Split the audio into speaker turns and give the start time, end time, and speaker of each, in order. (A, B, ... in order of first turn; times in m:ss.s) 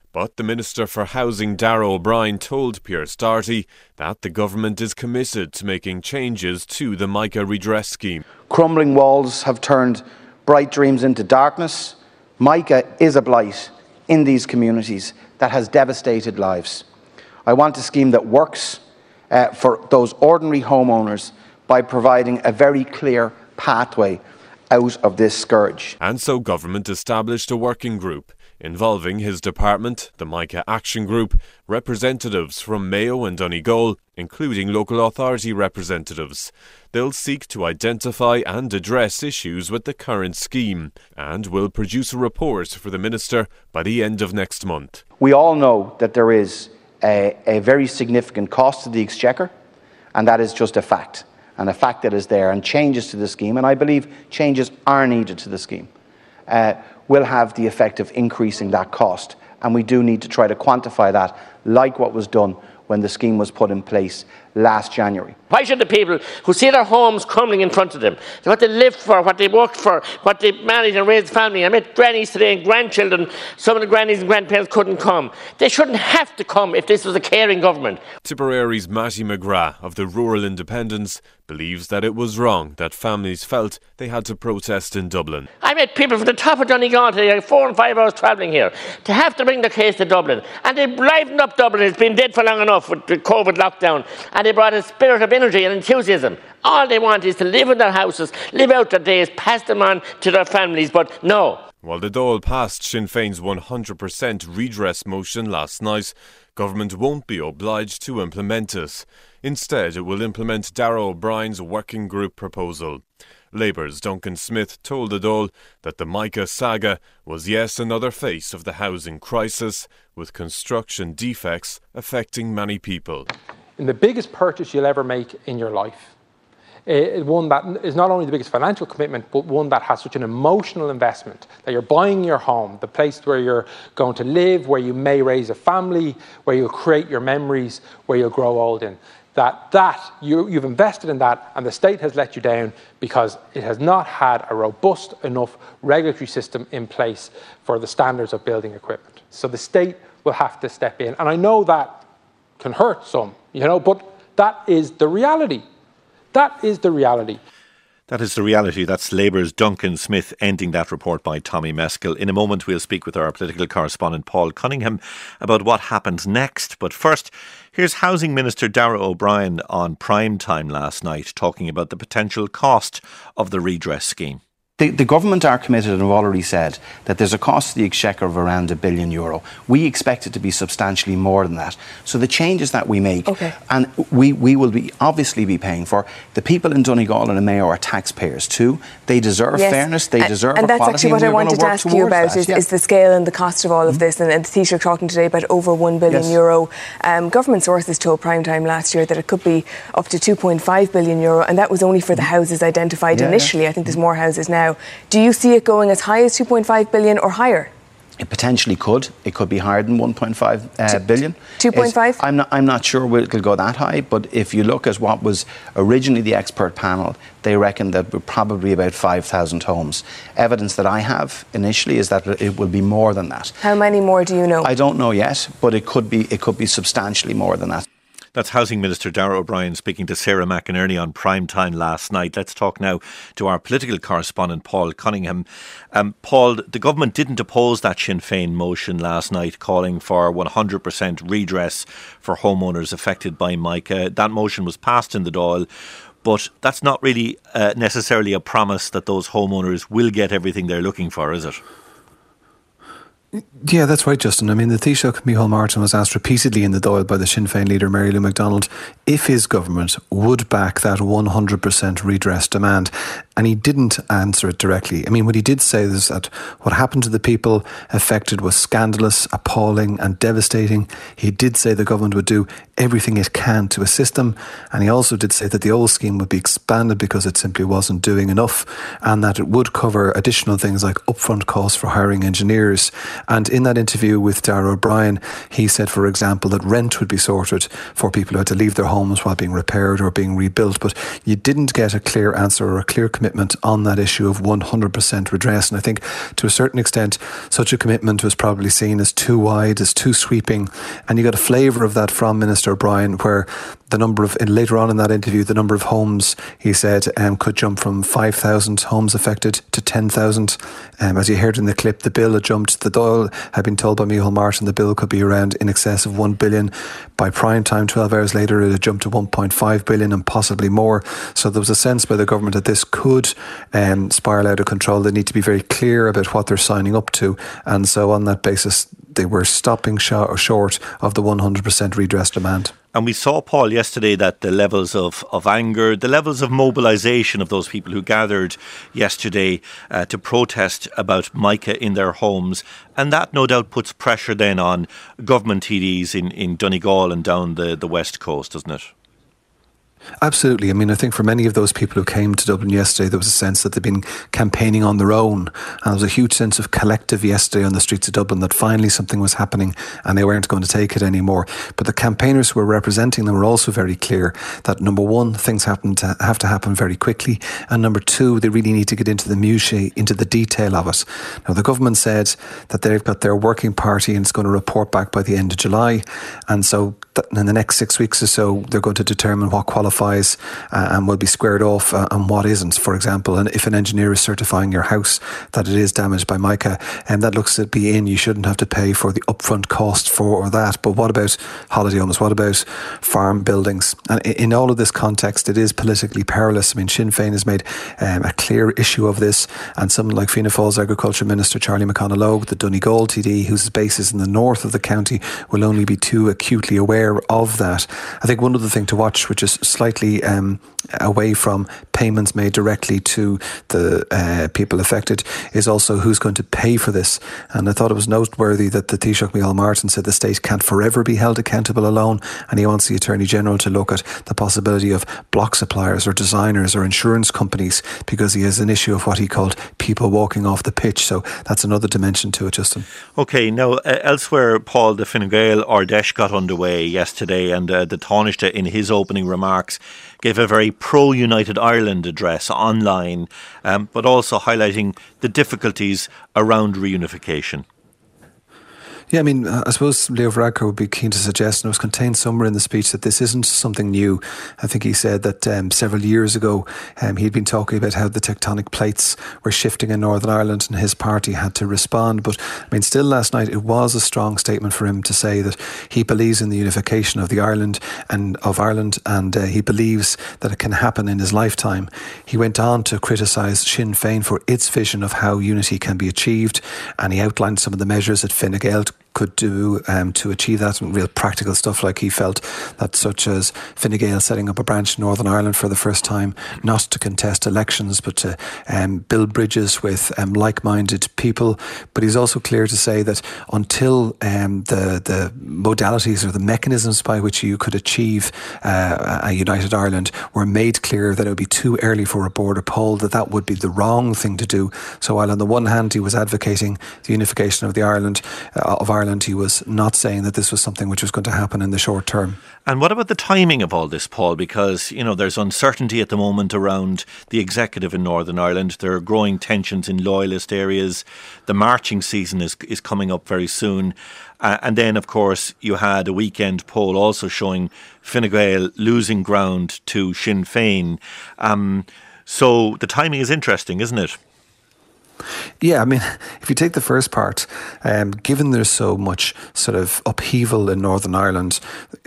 0:00.1-0:08.2 A
0:08.5-0:16.9 B
0:17.4-0:26.0 B
0:26.0-0:45.0 A
0:45.2-0:49.5 B
0:50.1-0:55.9 B
0:56.5-1:05.4 B
1:05.5-1:18.0 C
1:18.2-1:25.5 A
1:25.6-1:41.6 C
1:41.8-2:03.3 A
2:03.8-2:06.1 D
2:06.9-2:32.0 D
2:32.6-2:35.6 D
2:36.3-2:37.4 D
2:38.1-2:54.4 E
2:54.8-3:12.6 B
3:03.2-3:03.6 F
3:09.5-3:27.7 F
3:16.1-3:16.4 B
3:23.1-3:24.0 B
3:28.2-3:43.6 B
3:31.6-3:32.2 F
3:43.6-3:44.7 F
3:44.6-3:47.8 B
3:48.4-4:05.6 E
4:06.2-4:11.6 E
4:13.4-5:32.7 G
5:32.9-5:48.9 E
5:50.2-7:12.9 G
7:13.2-7:27.6 E
7:29.1-8:32.4 G
8:32.6-8:54.2 E
8:55.6-9:01.6 G